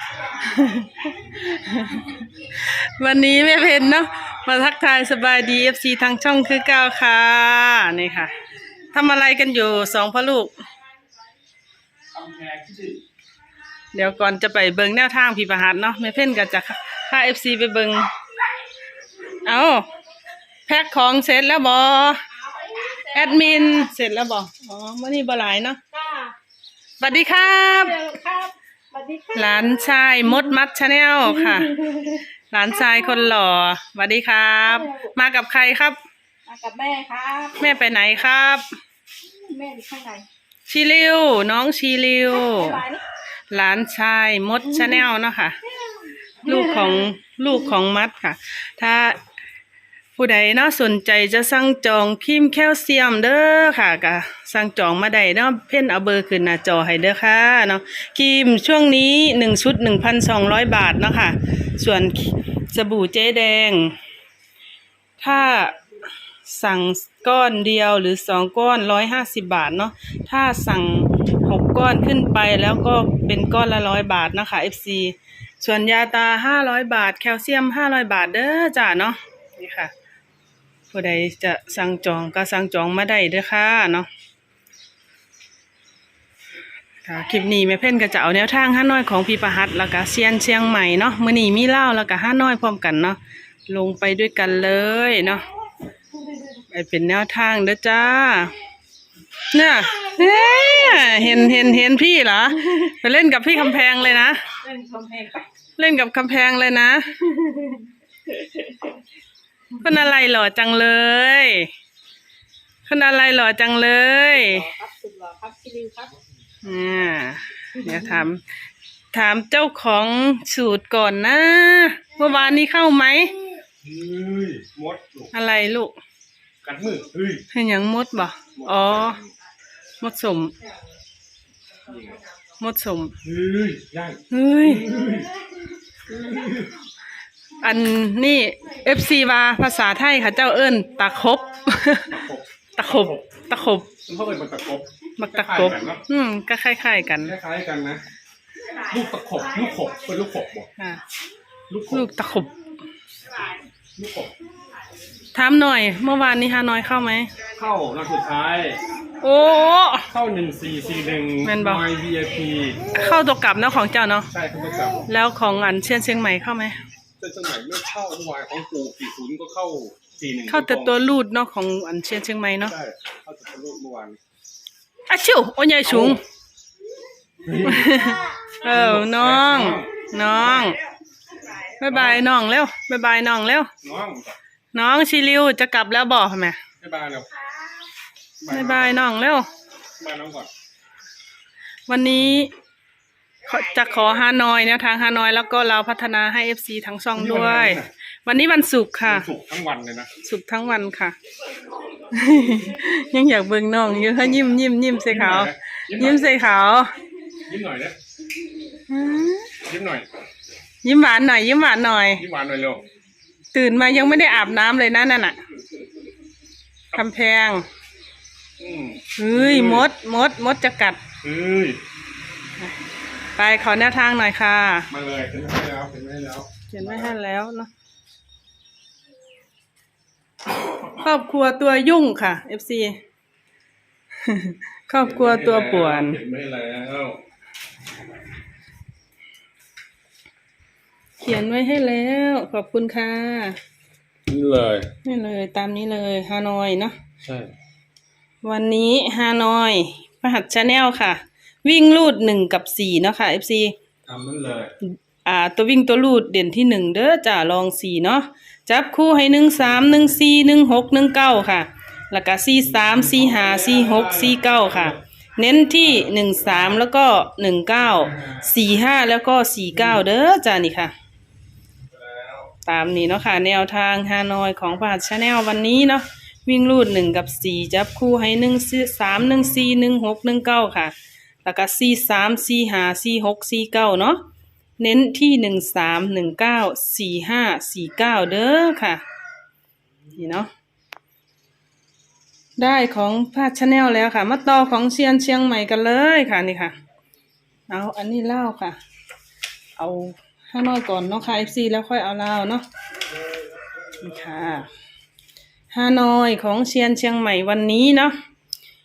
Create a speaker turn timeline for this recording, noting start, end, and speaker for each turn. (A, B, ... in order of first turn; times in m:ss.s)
0:00.2-0:08.3 A
0:08.9-0:10.6 A
0:12.2-0:13.0 B
0:13.9-0:18.1 A
0:19.3-0:19.9 A
0:20.7-0:22.3 A
0:22.6-0:23.9 C
0:22.9-0:25.8 A
0:25.9-0:26.4 C
0:27.0-0:28.0 A
0:27.8-0:29.7 C
0:29.3-0:36.0 A
0:31.4-0:32.2 C
0:34.8-0:35.1 C
0:36.5-0:37.6 C
0:37.6-0:38.7 A
0:39.3-0:40.3 C
0:40.7-0:42.8 A
0:42.3-0:43.0 C
0:43.5-0:45.6 A
0:46.4-0:49.2 A
0:46.5-0:47.0 C
0:50.2-1:04.0 A
1:05.2-1:05.8 A
1:06.4-1:19.9 A
1:20.9-1:24.1 A
1:27.0-1:35.4 A
1:36.6-1:38.6 A
1:39.5-1:44.5 A
1:40.0-1:41.3 C
1:44.6-1:45.5 C
1:45.8-1:47.5 A
1:47.4-1:48.9 C
1:49.8-1:51.7 A
1:52.9-1:54.7 A
1:54.4-1:56.1 C
1:56.6-1:58.4 A
1:59.1-2:03.4 A
2:03.8-2:05.3 B
2:05.3-2:06.0 A
2:06.6-2:07.4 B
2:07.5-2:09.2 A
2:08.6-2:09.3 B
2:10.0-2:10.5 A
2:11.9-2:12.2 B
2:12.6-2:13.2 A
2:13.2-2:15.4 B
2:14.3-2:14.9 A
2:16.1-2:16.7 B
2:17.6-2:22.2 A
2:22.1-2:23.3 B
2:22.8-2:23.9 A
2:24.0-2:26.0 B
2:25.2-2:27.3 A
2:27.2-2:28.0 B
2:28.7-2:30.7 B
2:30.8-2:31.0 A
2:31.7-2:32.1 B
2:31.9-2:32.5 A
2:34.0-2:34.4 B
2:35.3-2:37.3 A
2:37.5-2:38.8 B
2:39.2-2:40.1 A
2:40.1-2:42.9 B
2:41.4-2:41.8 A
2:42.9-2:44.3 A
2:44.3-2:45.1 B
2:45.1-2:46.8 A
2:47.2-2:51.0 B
2:50.5-2:52.8 A
2:52.6-2:54.2 B
2:55.1-2:56.2 A
2:55.8-2:56.2 B
2:57.4-3:00.8 B
2:57.6-3:00.8 A
3:01.8-3:03.7 A
3:01.9-3:02.3 B
3:03.8-3:04.4 B
3:04.7-3:06.6 A
3:06.8-3:07.3 B
3:08.4-3:09.0 B
3:08.5-3:09.5 A
3:10.0-3:10.5 B
3:11.9-3:12.5 A
3:13.4-3:19.3 A
3:17.2-3:17.9 B
3:19.0-3:20.1 B
3:20.2-3:21.2 A
3:22.0-3:26.9 A
3:25.0-3:26.3 B
3:27.4-3:28.0 B
3:28.9-3:29.6 A
3:29.6-3:30.1 B
3:30.8-3:32.2 A
3:32.2-3:32.8 B
3:33.5-3:35.4 A
3:36.9-3:37.7 A
3:38.6-3:39.9 B
3:39.2-3:41.0 A
3:41.2-3:41.8 B
3:43.4-3:44.9 A
3:44.9-3:47.1 B
3:46.7-3:47.7 A
3:50.8-3:53.0 A
3:54.2-3:56.2 A
3:55.0-3:57.2 B
4:01.2-4:03.6 A
4:04.3-4:04.9 B
4:05.0-4:07.0 A
4:07.2-4:07.6 B
4:08.4-4:13.8 A
4:14.1-4:14.7 B
4:14.8-4:30.9 A
4:22.8-4:25.0 B
4:25.8-4:26.8 B
4:27.8-4:28.5 B
4:31.9-4:32.5 B
4:32.6-4:40.9 A
4:41.4-4:44.2 A
4:44.8-4:49.0 A
4:50.1-4:50.5 A
4:52.6-4:56.7 A
4:57.7-4:58.8 A
4:59.8-5:02.7 A
5:04.0-5:04.7 A
5:05.7-5:08.2 A